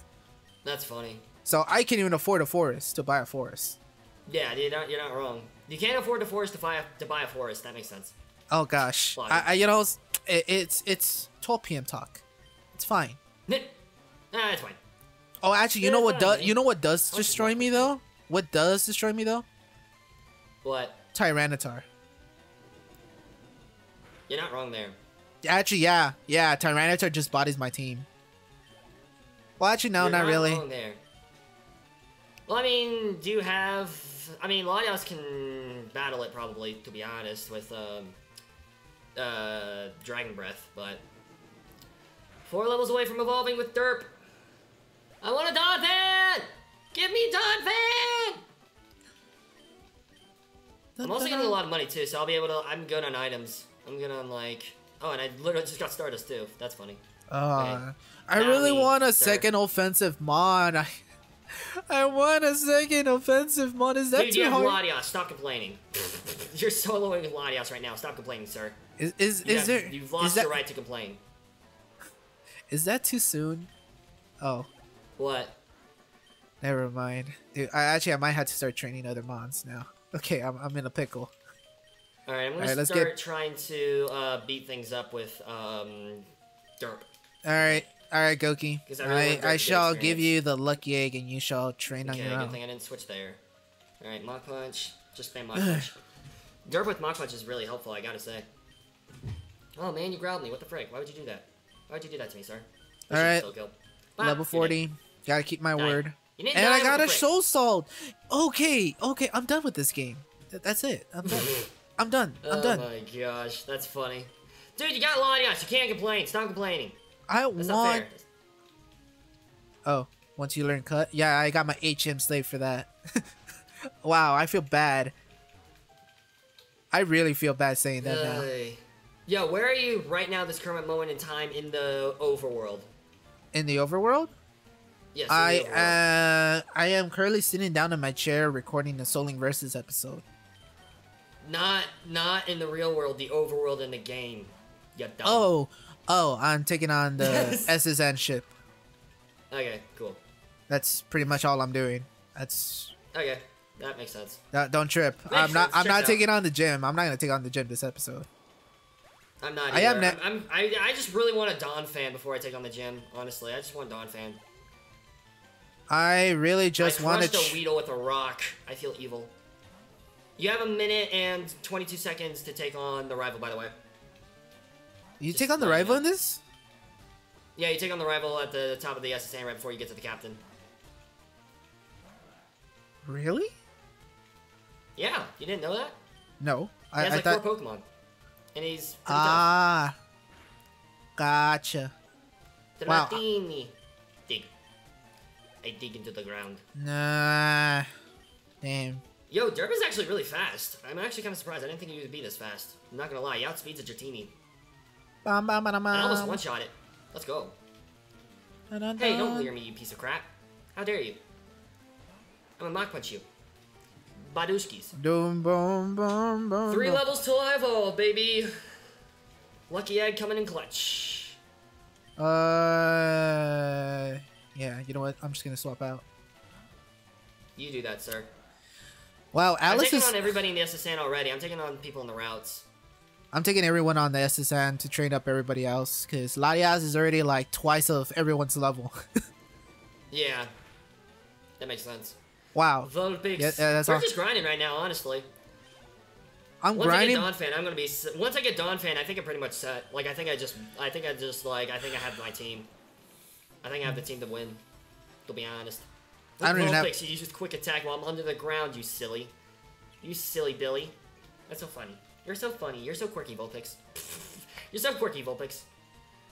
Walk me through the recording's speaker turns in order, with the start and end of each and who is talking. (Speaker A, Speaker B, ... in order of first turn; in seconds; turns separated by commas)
Speaker A: 0.6-1.2, Speaker B: 1.4-3.8, Speaker A: 4.3-8.1, Speaker B: 8.5-12.2, Speaker A: 9.2-9.5, Speaker B: 12.7-13.2, Speaker A: 14.3-14.8, Speaker B: 15.4-19.5, Speaker A: 15.8-16.6, Speaker A: 17.1-17.9, Speaker A: 20.6-21.0, Speaker B: 21.1-21.9, Speaker A: 24.3-25.0, Speaker B: 25.4-28.1, Speaker B: 29.6-30.6, Speaker A: 30.0-31.0, Speaker A: 32.5-38.2, Speaker A: 39.2-41.0, Speaker A: 42.5-44.1, Speaker A: 45.2-48.4, Speaker B: 51.0-51.6, Speaker A: 51.0-57.0, Speaker B: 57.3-60.9, Speaker A: 57.6-57.8, Speaker A: 58.4-59.5, Speaker B: 61.5-64.8, Speaker A: 64.1-68.8, Speaker B: 69.0-70.5, Speaker A: 69.4-71.2, Speaker B: 72.7-73.7, Speaker B: 74.4-74.7, Speaker A: 75.2-75.6, Speaker B: 76.6-81.3, Speaker A: 82.3-86.3, Speaker B: 82.6-83.1, Speaker A: 86.8-87.1, Speaker B: 87.4-92.6, Speaker A: 88.9-90.3, Speaker A: 92.0-93.4, Speaker A: 94.0-96.0, Speaker B: 95.5-95.9, Speaker A: 96.7-98.5, Speaker A: 99.8-104.8, Speaker B: 103.1-103.5, Speaker B: 104.2-112.9, Speaker A: 105.8-107.3, Speaker A: 111.3-111.7, Speaker A: 112.4-117.0, Speaker B: 117.3-118.1, Speaker A: 117.6-118.3, Speaker B: 119.9-123.3, Speaker B: 124.0-125.1, Speaker B: 126.9-128.5, Speaker A: 128.0-132.9, Speaker B: 133.5-134.3, Speaker A: 135.1-136.0, Speaker B: 135.3-140.2, Speaker A: 141.4-145.5, Speaker B: 145.2-148.5, Speaker A: 147.2-147.7, Speaker A: 149.5-150.2, Speaker B: 150.7-152.9, Speaker A: 153.1-154.4, Speaker B: 154.5-158.3, Speaker A: 155.3-156.2, Speaker A: 159.4-164.4, Speaker B: 159.7-160.2, Speaker B: 165.9-167.6, Speaker A: 166.8-169.3, Speaker A: 170.4-173.7, Speaker B: 175.2-176.4, Speaker A: 175.3-176.0, Speaker A: 177.6-180.4, Speaker B: 183.1-183.5, Speaker A: 185.0-186.0, Speaker B: 186.4-187.4, Speaker A: 187.0-187.8, Speaker A: 188.5-189.5, Speaker B: 189.1-189.9, Speaker B: 191.2-191.9, Speaker A: 192.8-193.8, Speaker B: 192.9-193.2, Speaker A: 195.6-196.6, Speaker B: 196.8-197.9, Speaker B: 198.6-199.0, Speaker A: 199.3-204.3, Speaker B: 205.2-206.4, Speaker A: 205.9-207.6, Speaker B: 208.7-209.5, Speaker A: 209.0-211.2, Speaker A: 212.6-213.2, Speaker A: 214.2-214.9, Speaker B: 214.9-217.0, Speaker A: 216.7-218.5, Speaker A: 219.7-221.4, Speaker B: 222.2-226.0, Speaker A: 227.6-228.3, Speaker B: 229.3-230.2, Speaker A: 229.7-232.7, Speaker B: 233.3-238.9, Speaker A: 240.1-240.5, Speaker A: 241.6-242.2, Speaker B: 242.6-244.1, Speaker A: 242.8-245.3, Speaker B: 246.6-247.3, Speaker A: 246.8-252.7, Speaker A: 253.6-254.6, Speaker A: 255.3-255.9, Speaker A: 256.4-259.3, Speaker B: 256.4-256.9, Speaker A: 260.0-261.0, Speaker A: 261.5-265.7